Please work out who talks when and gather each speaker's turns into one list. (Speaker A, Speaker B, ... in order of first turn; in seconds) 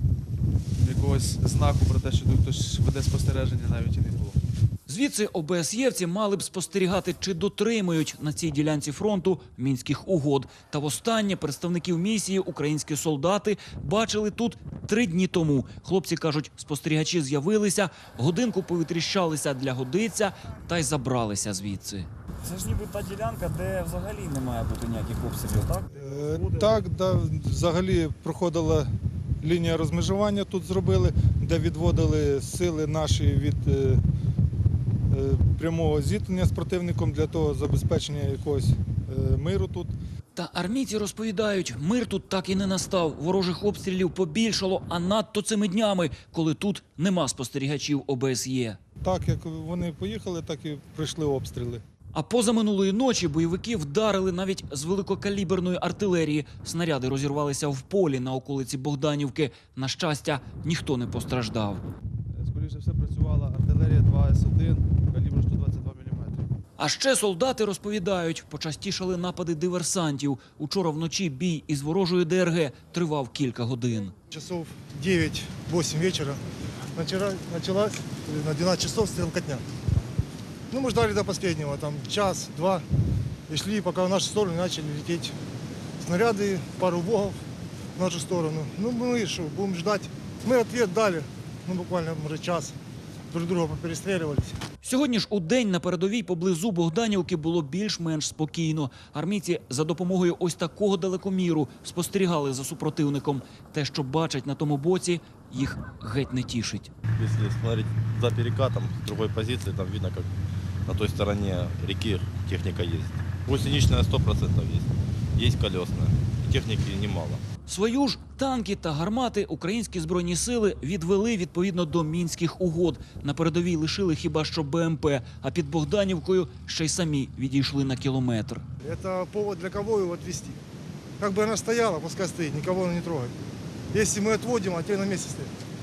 Speaker A: 0.8-4.4, 62.3-66.5
Speaker B: 4.9-26.8, 40.4-48.8, 52.1-61.8, 66.8-74.2, 94.8-106.9, 117.7-128.7
Speaker C: 25.9-28.9, 29.4-34.0, 35.1-39.9, 49.0-51.8
Speaker D: 74.3-76.4, 77.0-79.6, 80.7-82.9, 83.5-85.3, 86.0-87.4, 88.0-92.8, 93.3-94.6, 128.8-130.6, 131.2-133.3, 133.9-135.5
Speaker E: 107.2-110.3, 110.9-117.4